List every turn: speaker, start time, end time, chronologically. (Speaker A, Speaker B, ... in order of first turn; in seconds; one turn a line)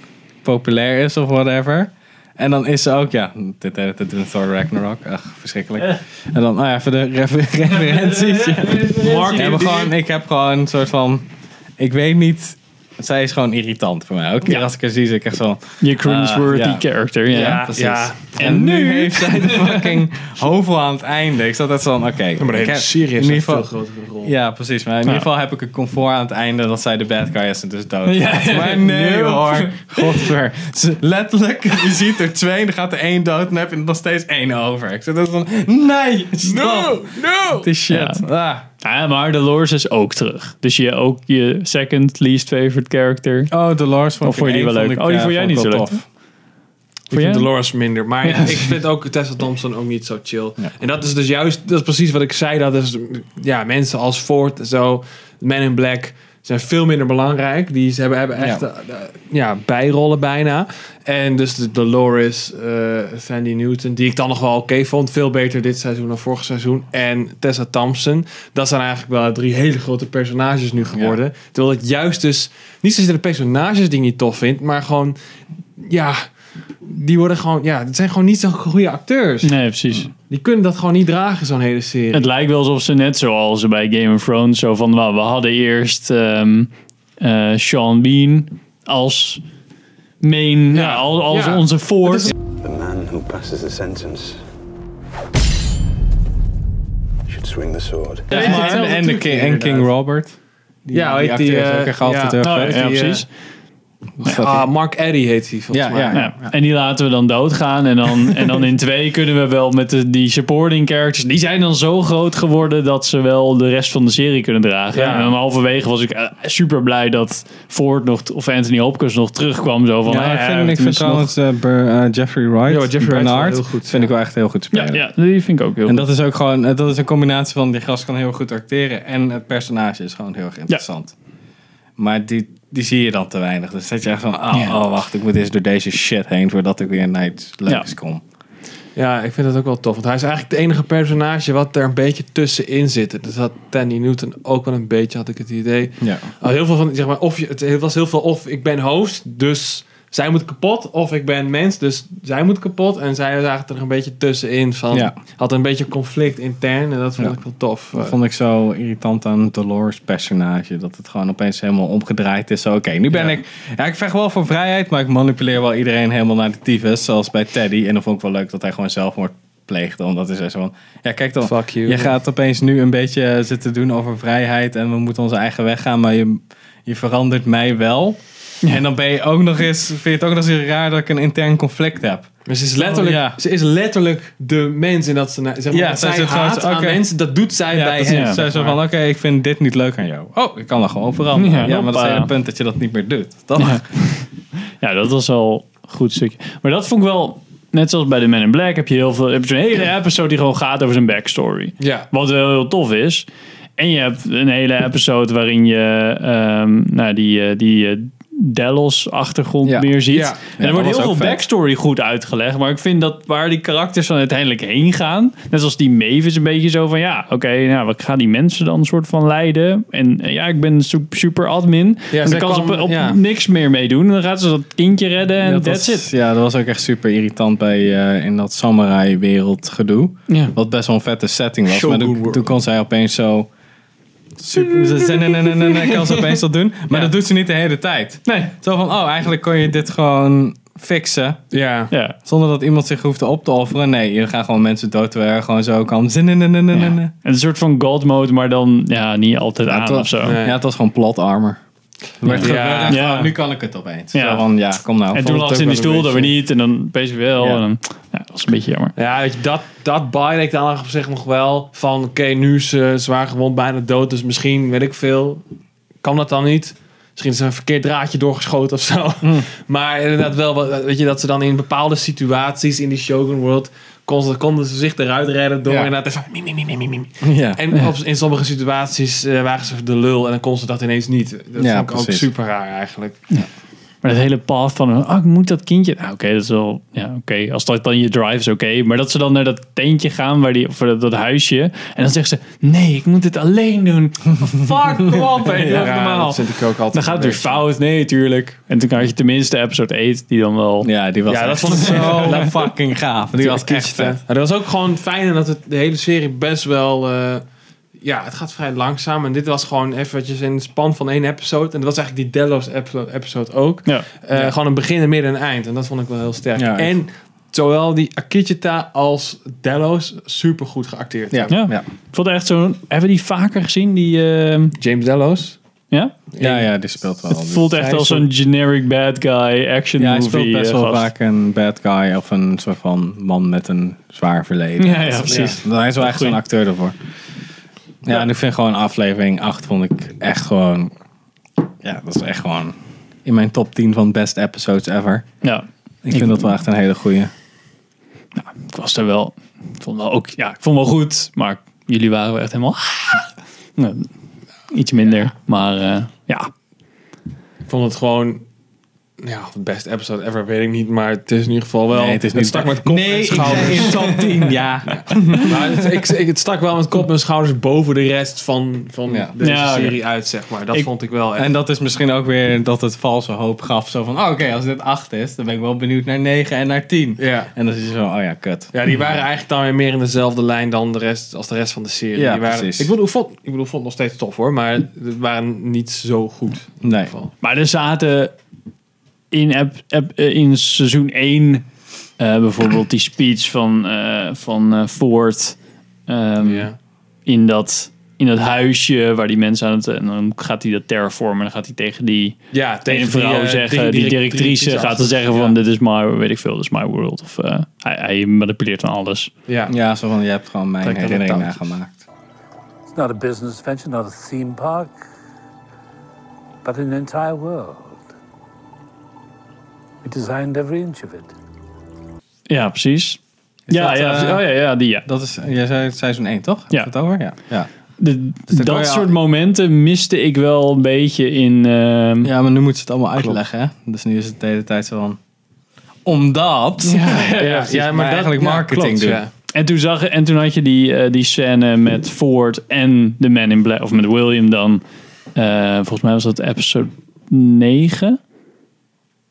Speaker A: 0.4-23.7
Speaker B: 7.8-9.8
Speaker C: 9.0-9.9
Speaker B: 15.8-17.7
Speaker C: 17.3-18.3
Speaker B: 18.4-20.0
Speaker C: 22.4-24.3
Speaker A: 24.2-38.7
Speaker B: 28.1-30.3
Speaker C: 36.4-37.7
Speaker B: 37.9-38.2
Speaker B: 38.8-43.5
Speaker A: 43.5-46.0
Speaker B: 44.2-46.0
Speaker C: 47.1-75.2
Speaker B: 47.1-47.5
Speaker B: 48.2-48.7
Speaker A: 58.4-58.6
Speaker A: 70.9-71.2
Speaker C: 75.8-76.3
Speaker C: 76.8-79.6
Speaker B: 79.4-80.1
Speaker C: 80.2-82.3
Speaker B: 82.1-89.4
Speaker B: 90.2-92.3
Speaker C: 90.7-92.3
Speaker D: 92.5-94.4
Speaker D: 97.3-98.3
Speaker C: 98.3-99.9
Speaker A: 98.3-102.9
Speaker B: 98.3-98.8
Speaker C: 100.9-103.2
Speaker B: 102.4-103.3
Speaker A: 104.2-104.7
Speaker C: 104.2-106.2
Speaker A: 105.7-106.5
Speaker B: 106.1-121.3
Speaker C: 114.9-115.3
Speaker A: 120.1-125.1
Speaker C: 122.7-124.1
Speaker B: 124.7-126.1
Speaker A: 125.8-131.2
Speaker A: 132.0-138.2
Speaker B: 134.5-134.8
Speaker C: 139.0-158.2
Speaker A: 146.0-146.3
Speaker A: 157.9-183.4
Speaker C: 163.1-163.4
Speaker C: 171.4-172.1
Speaker C: 182.5-188.8
Speaker A: 185.7-187.0
Speaker A: 187.7-193.9
Speaker B: 188.1-188.4
Speaker B: 191.4-192.3
Speaker B: 193.6-194.3
Speaker B: 194.8-203.3
Speaker C: 201.8-202.1
Speaker B: 203.8-226.1
Speaker A: 209.7-211.4
Speaker C: 210.1-210.4
Speaker C: 222.1-223.2
Speaker A: 225.4-233.5
Speaker B: 230.3-230.6
Speaker C: 231.7-232.5
Speaker A: 234.4-241.4
Speaker C: 241.5-241.9
Speaker B: 241.9-242.2
Speaker A: 242.2-247.1
Speaker B: 246.7-250.4
Speaker A: 249.7-251.6
Speaker C: 250.2-250.6
Speaker A: 252.2-255.2
Speaker B: 252.2-253.3
Speaker C: 252.3-253.2
Speaker B: 254.1-254.4
Speaker B: 255.1-258.9
Speaker C: 255.2-256.3
Speaker C: 259.0-265.4
Speaker C: 266.0-283.2
Speaker A: 275.7-275.9
Speaker A: 277.2-277.6
Speaker A: 281.6-282.3
Speaker B: 284.0-296.4
Speaker A: 295.5-295.9
Speaker C: 295.5-297.6
Speaker B: 296.9-300.9
Speaker A: 300.8-304.2
Speaker C: 301.3-302.7
Speaker C: 303.4-307.4
Speaker C: 308.0-321.6
Speaker A: 316.6-317.0
Speaker A: 321.3-321.9
Speaker B: 321.5-324.8
Speaker C: 324.8-325.6
Speaker C: 326.3-326.7
Speaker A: 326.4-327.8
Speaker B: 327.3-331.1
Speaker C: 327.8-328.3
Speaker A: 330.0-337.0
Speaker B: 334.8-336.4
Speaker C: 335.3-335.6
Speaker A: 338.0-340.9
Speaker A: 341.8-345.3
Speaker B: 345.4-346.4
Speaker A: 346.0-347.3
Speaker B: 348.4-354.1
Speaker B: 354.7-356.5
Speaker C: 357.7-358.4
Speaker C: 359.2-364.3
Speaker A: 361.9-366.0
Speaker B: 363.5-363.9
Speaker C: 364.9-371.5
Speaker B: 369.4-370.0
Speaker A: 371.4-378.7
Speaker C: 377.2-377.5
Speaker C: 378.7-387.3
Speaker A: 382.1-382.9
Speaker A: 386.8-387.1
Speaker B: 387.4-388.4
Speaker B: 389.3-391.7
Speaker B: 392.2-396.7
Speaker C: 396.4-396.8
Speaker B: 397.3-409.3
Speaker C: 402.5-405.6
Speaker C: 409.5-409.7
Speaker A: 409.7-412.0
Speaker C: 410.8-411.6
Speaker E: 412.9-415.0
Speaker E: 416.6-418.1
Speaker E: 420.0-421.3
Speaker B: 422.5-425.1
Speaker A: 423.7-424.5
Speaker A: 425.1-427.7
Speaker B: 428.0-432.3
Speaker A: 428.5-429.1
Speaker A: 432.2-435.2
Speaker A: 436.1-439.2
Speaker B: 436.9-437.7
Speaker C: 437.4-439.3
Speaker B: 439.5-444.8
Speaker B: 445.4-448.2